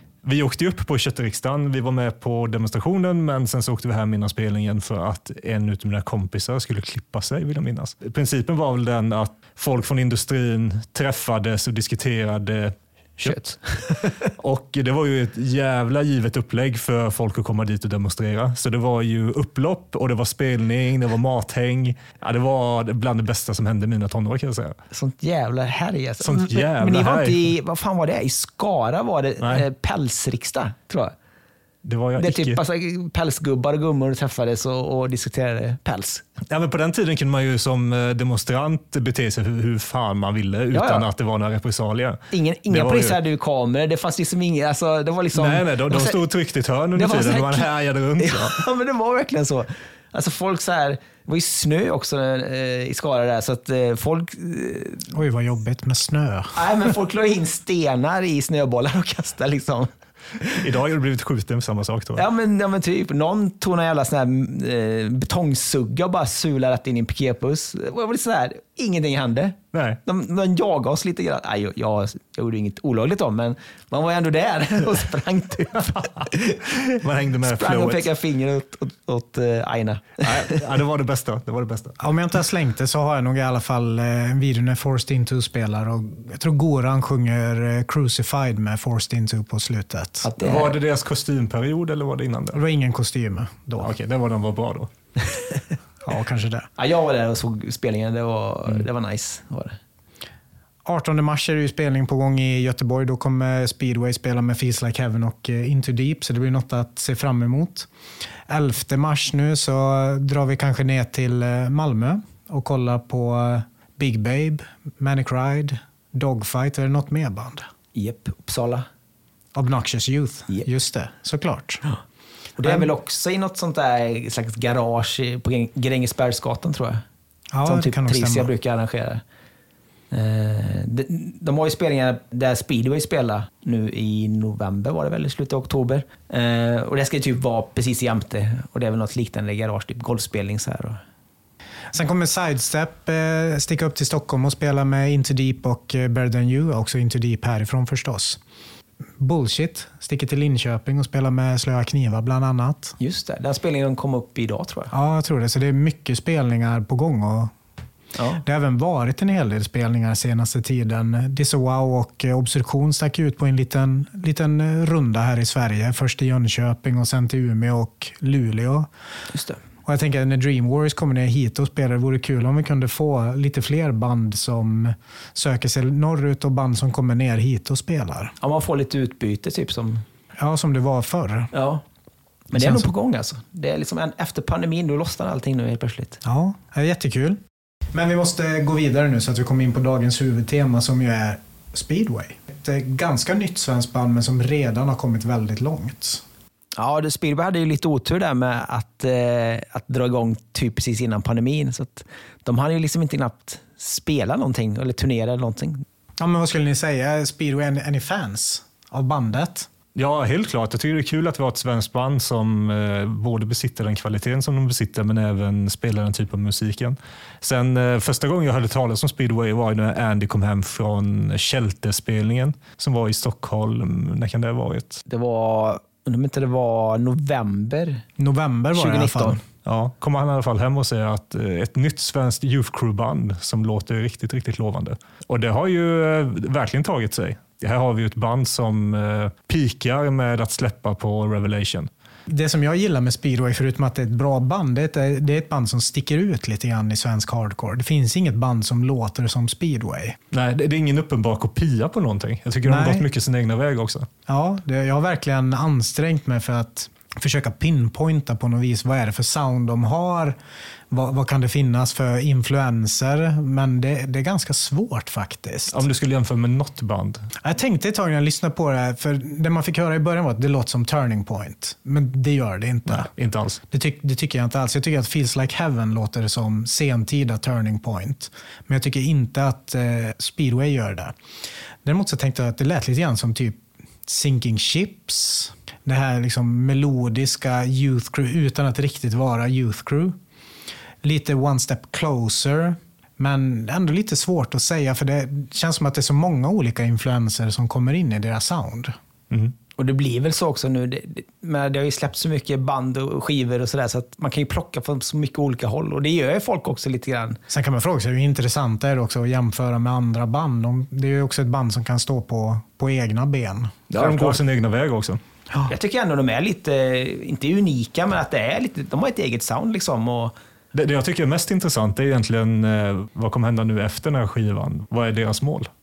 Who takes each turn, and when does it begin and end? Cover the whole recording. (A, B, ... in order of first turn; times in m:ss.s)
0:00.2-0:24.8 A
0:13.2-0:14.2 B
0:24.9-0:31.1 B
0:26.2-0:27.5 A
0:31.8-0:32.6 A
0:32.2-0:36.2 B
0:36.5-0:43.2 A
0:40.7-0:41.1 B
0:42.3-0:46.2 B
0:45.4-0:48.6 A
0:47.0-0:55.1 B
0:55.1-0:56.9 C
0:56.6-1:00.6 B
1:00.6-1:02.2 A
1:02.2-1:16.8 B
1:09.7-1:10.0 A
1:16.9-1:18.1 A
1:17.4-1:20.6 B
1:20.2-1:22.0 A
1:22.0-1:30.3 C
1:30.2-1:30.7 B
1:30.4-1:32.6 A
1:32.5-1:33.9 C
1:33.8-1:34.9 A
1:36.0-1:36.7 C
1:36.8-1:39.8 B
1:40.8-1:47.9 C
1:48.5-1:57.7 C
1:58.0-1:58.9 B
1:59.6-2:01.8 C
2:02.6-2:07.0 B
2:02.6-2:02.9 C
2:07.5-2:08.5 C
2:07.6-2:09.2 B
2:10.1-2:21.0 B
2:21.9-2:28.4 C
2:29.2-2:33.0 C
2:33.0-2:34.9 B
2:34.9-2:37.5 C
2:38.2-2:38.4 B
2:38.4-2:48.9 C
2:49.3-2:49.6 B
2:49.8-2:58.3 C
2:58.4-3:00.0 B
3:00.4-3:01.5 C
3:01.5-3:01.8 B
3:02.5-3:06.2 B
3:02.5-3:02.9 C
3:06.2-3:07.4 C
3:07.9-3:16.2 C
3:16.8-3:25.8 B
3:26.2-3:29.7 C
3:30.0-3:45.0 A
3:45.1-3:48.0 B
3:48.2-3:49.4 C
3:48.8-3:49.4 B
3:49.6-4:01.9 A
4:02.3-4:10.2 C
4:10.3-4:14.1 A
4:12.7-4:13.1 C
4:14.3-4:20.4 C
4:20.9-4:25.8 C
4:25.7-4:27.3 A
4:27.4-4:33.1 C
4:32.9-4:33.6 A
4:33.7-4:41.1 C
4:41.8-4:50.2 C
4:51.0-4:59.0 C
4:59.8-5:07.4 B
5:07.5-5:13.9 C
5:13.9-5:15.2 A
5:14.0-5:14.4 B
5:15.7-5:20.4 B
5:20.7-5:25.7 A